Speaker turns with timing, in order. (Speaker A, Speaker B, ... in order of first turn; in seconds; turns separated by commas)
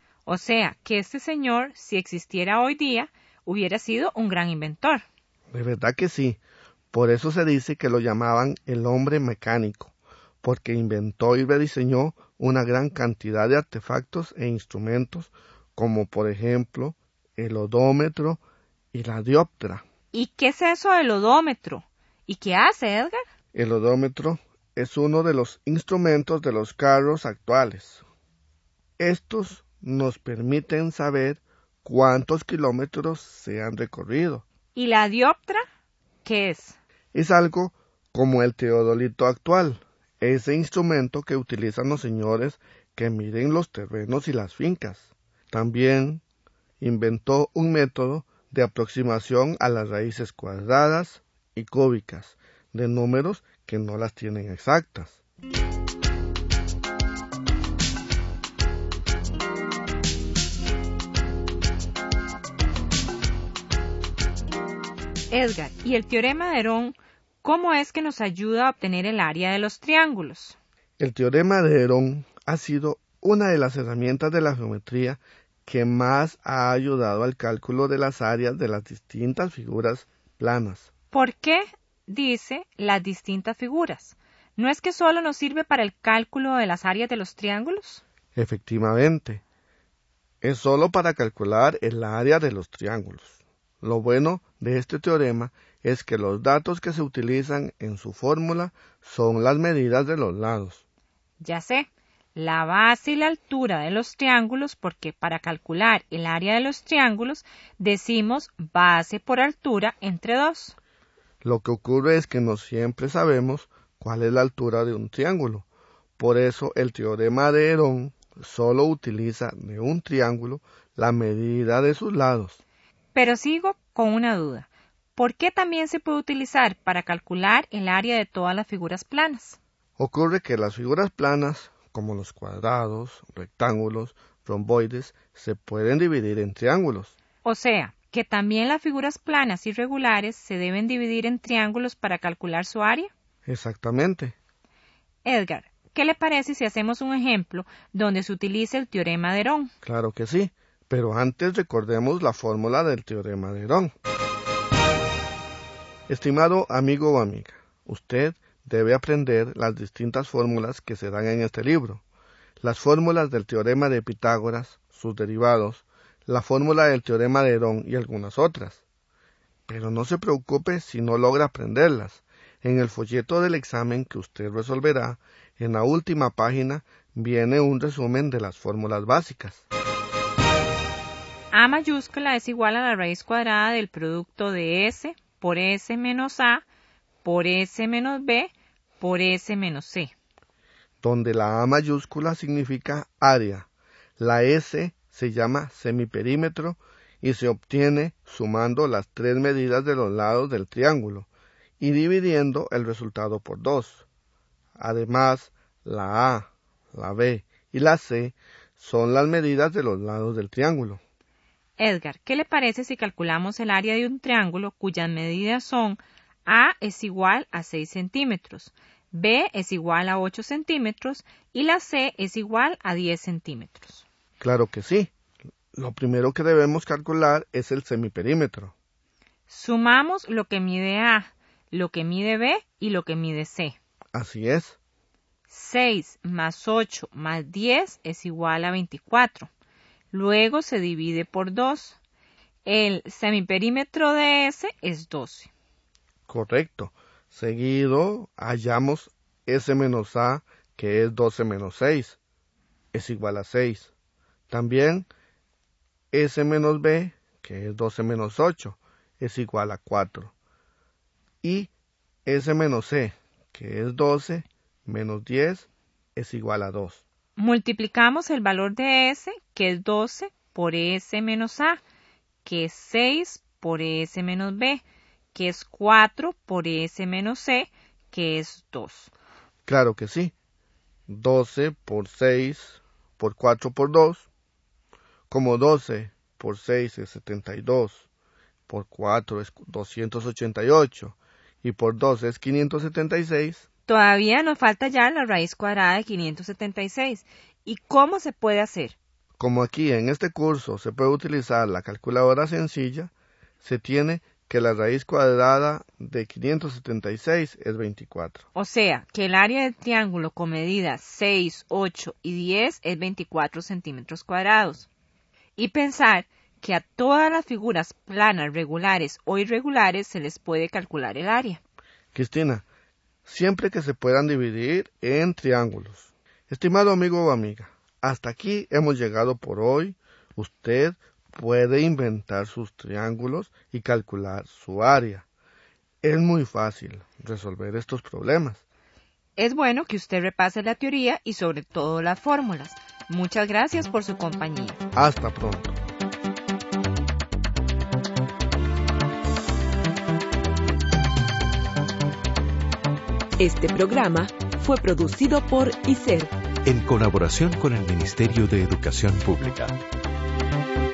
Speaker A: 0.2-5.0, Speaker B: 5.5-6.4, Speaker B: 6.9-18.4, Speaker B: 18.9-19.8, Speaker A: 20.1-23.2, Speaker B: 23.5-28.0, Speaker B: 29.0-34.4, Speaker A: 34.7-35.6, Speaker A: 36.2-36.8, Speaker B: 37.1-46.2, Speaker B: 46.8-55.2, Speaker A: 65.3-70.6, Speaker B: 71.0-80.9, Speaker A: 81.1-88.0, Speaker B: 88.3-89.4, Speaker B: 90.4-100.8, Speaker A: 101.4-110.8, Speaker B: 111.4-115.7, Speaker B: 116.2-122.6, Speaker A: 123.1-129.6, Speaker B: 130.0-137.1, Speaker A: 137.4-143.1, Speaker B: 143.4-144.3, Speaker A: 145.2-149.7, Speaker B: 149.8-153.9, Speaker B: 156.1-162.0, Speaker B: 162.6-168.8, Speaker B: 169.7-179.6, Speaker A: 181.5-186.6, Speaker A: 187.2-190.1, Speaker B: 191.0-193.7, Speaker B: 194.2-201.3, Speaker B: 201.8-204.0, Speaker B: 204.8-211.0, Speaker A: 211.8-224.0, Speaker B: 224.4-225.1, Speaker B: 225.7-228.7, Speaker A: 229.5-233.8, Speaker B: 234.1-234.8, Speaker A: 235.5-239.5, Speaker A: 240.1-242.0, Speaker A: 242.6-245.5, Speaker B: 246.3-252.2, Speaker B: 252.9-253.9, Speaker B: 254.5-255.1, Speaker B: 256.1-260.3, Speaker B: 261.4-261.7, Speaker B: 262.2-267.0, Speaker A: 267.4-271.8, Speaker A: 272.4-279.1, Speaker B: 279.6-280.3, Speaker B: 281.1-284.3, Speaker B: 285.3-288.1, Speaker B: 288.7-293.6, Speaker A: 293.9-298.9, Speaker B: 299.4-308.4, Speaker A: 308.5-314.9, Speaker A: 315.6-321.6, Speaker B: 322.1-322.6, Speaker B: 323.2-335.2, Speaker B: 336.0-338.6, Speaker A: 339.4-344.8, Speaker B: 344.9-345.8, Speaker C: 353.4-356.3, Speaker D: 356.6-359.8